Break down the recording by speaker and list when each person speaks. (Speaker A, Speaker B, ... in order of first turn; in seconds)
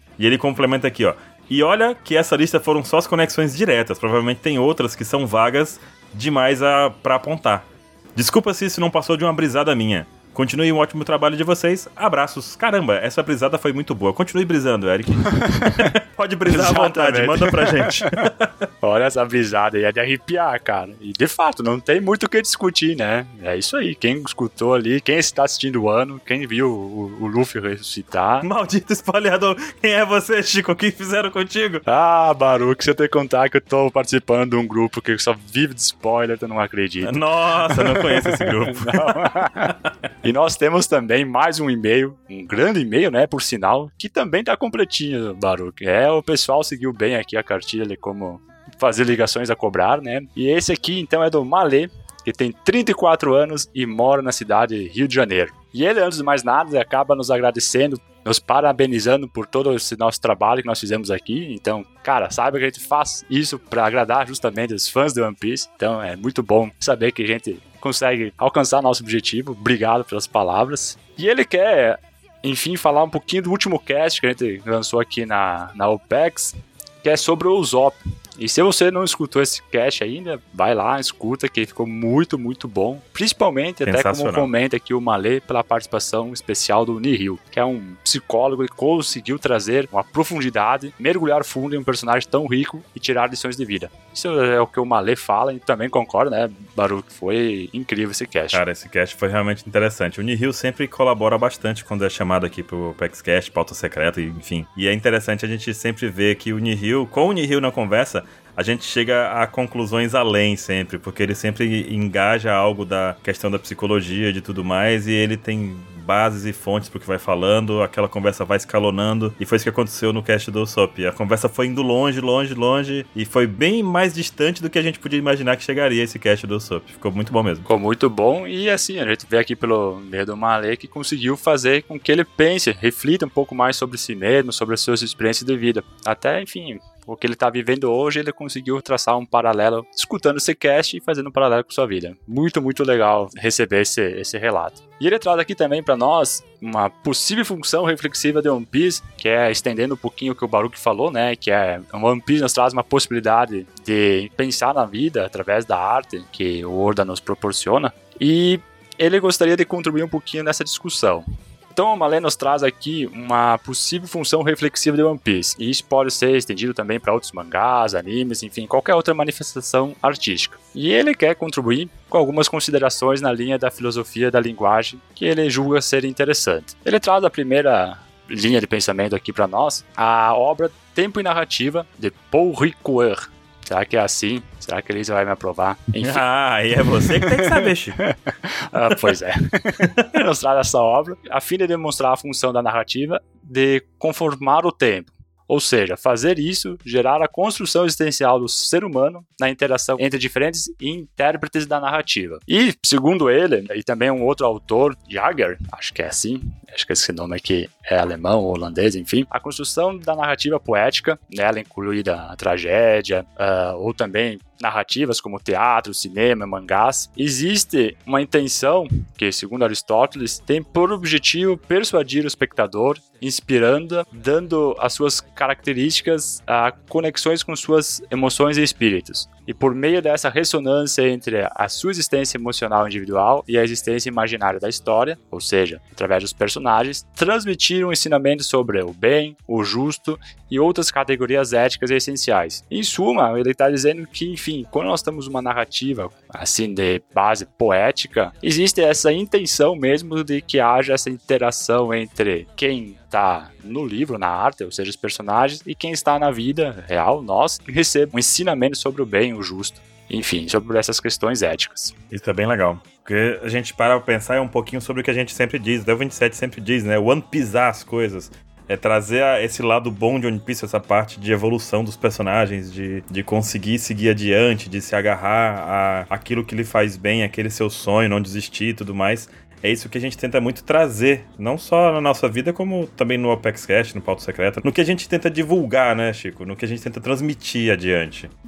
Speaker A: 0.2-18.7, 28.4-31.8, 37.0-39.9, 83.8-84.5, 98.5-127.7, 186.0-188.0, 189.8-190.2, 262.1-288.3
Speaker B: 15.2-15.9, 16.5-18.2, 18.8-28.5, 31.9-39.7, 40.2-98.6, 127.7-186.2, 186.8-261.9